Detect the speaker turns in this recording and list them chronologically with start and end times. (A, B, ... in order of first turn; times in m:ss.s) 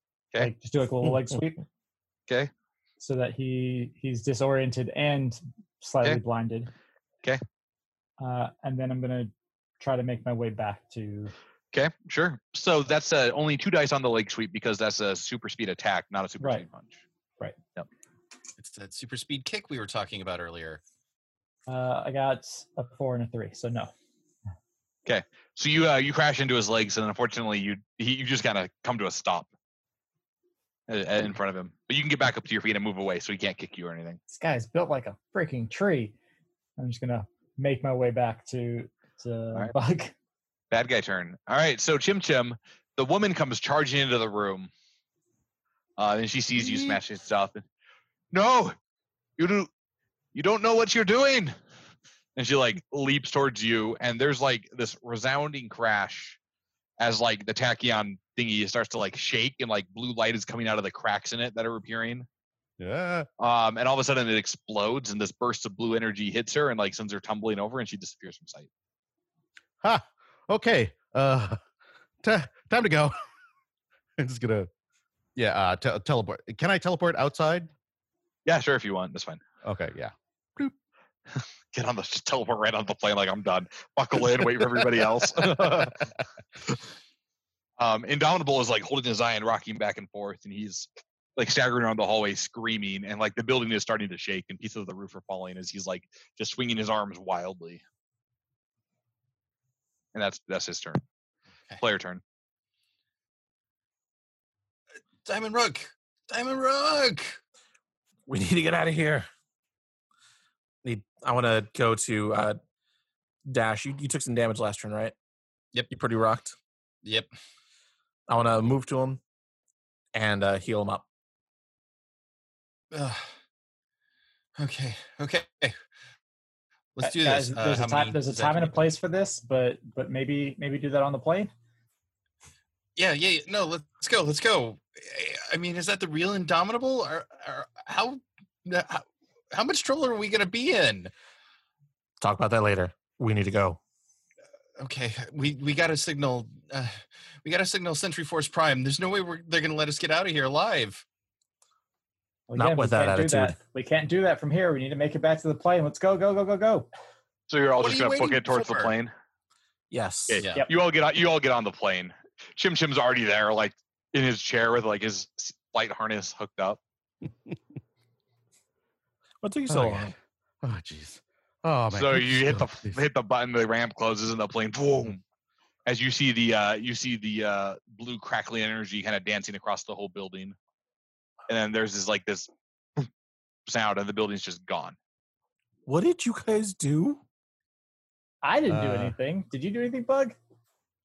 0:00.4-0:01.6 A
0:03.0-0:06.7 A
0:08.2-0:11.3 A
0:11.7-0:17.0 B
0:16.4-0:16.7 A
0:18.6-0:20.8 C
0:21.7-0:23.9 A
0:25.1-0:29.5 B
0:30.9-0:34.2 B
0:34.3-0:36.2 A
0:36.8-0:40.1 A
0:40.7-0:44.7 B
0:46.0-0:47.6 B
0:48.3-0:48.8 B
0:49.4-0:49.7 B
0:50.3-0:51.5 B
0:52.4-0:56.4 B
0:57.0-1:02.3 B
1:02.8-1:03.3 D
1:03.4-1:08.7 B
1:09.8-1:11.6 D
1:12.2-1:13.2 D
1:14.2-1:14.7 D
1:15.4-1:17.7 D
1:18.5-1:19.4 B
1:19.6-1:20.8 D
1:21.4-1:26.1 B
1:25.4-1:25.9 D
1:27.8-1:37.8 B
1:40.1-1:41.0 B
1:41.8-1:42.2 B
1:45.2-1:47.4 C
1:48.3-1:49.3 E
1:50.8-1:52.6 E
1:53.5-1:55.1 E
1:55.9-1:56.6 E
1:58.3-1:59.2 E
2:00.1-2:01.0 E
2:02.9-2:03.2 C
2:04.6-2:05.8 C
2:07.0-2:08.8 C
2:07.0-2:11.5 A
2:13.0-2:21.1 C
2:22.2-2:23.8 E
2:24.8-2:31.0 C
2:32.5-2:36.9 A
2:32.6-2:33.6 E
2:37.5-2:39.1 B
2:37.8-2:38.9 C
2:39.9-2:40.5 E
2:40.3-2:46.8 B
2:49.4-2:50.1 E
2:49.7-2:53.0 D
2:51.9-2:55.2 B
2:55.9-3:00.6 B
3:01.5-3:02.5 B
3:03.7-3:05.0 B
3:05.9-3:07.2 E
3:08.4-3:10.4 A
3:08.7-3:09.1 D